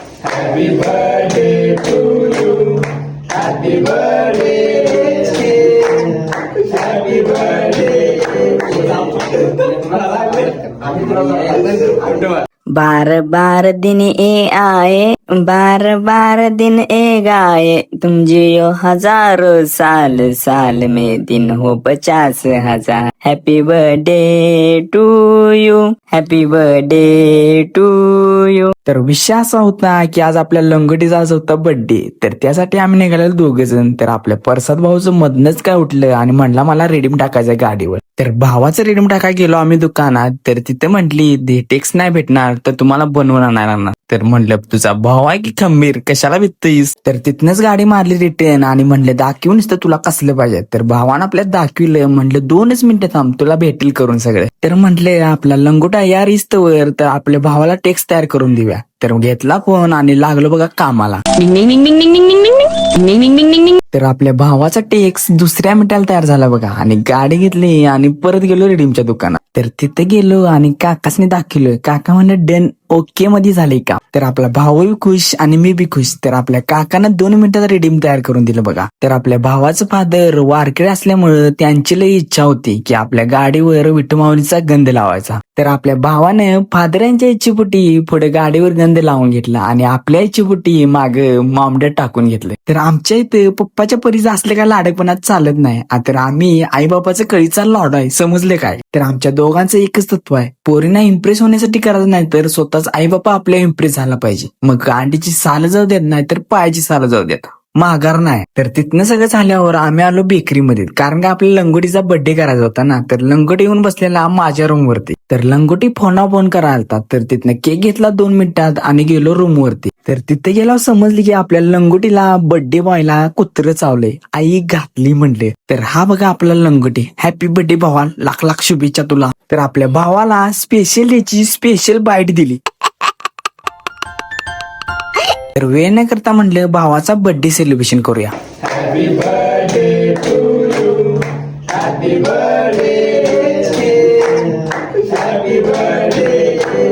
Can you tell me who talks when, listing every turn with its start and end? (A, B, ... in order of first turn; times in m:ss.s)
0:00.7-0:02.6 A
0:08.1-0:08.7 B
0:09.9-0:12.3 A
0:12.7-0:28.7 B
0:28.8-1:01.2 A
1:01.3-1:03.8 B
1:03.9-2:12.6 A
2:15.5-2:18.3 A
2:21.8-2:22.5 A
2:25.8-2:26.1 A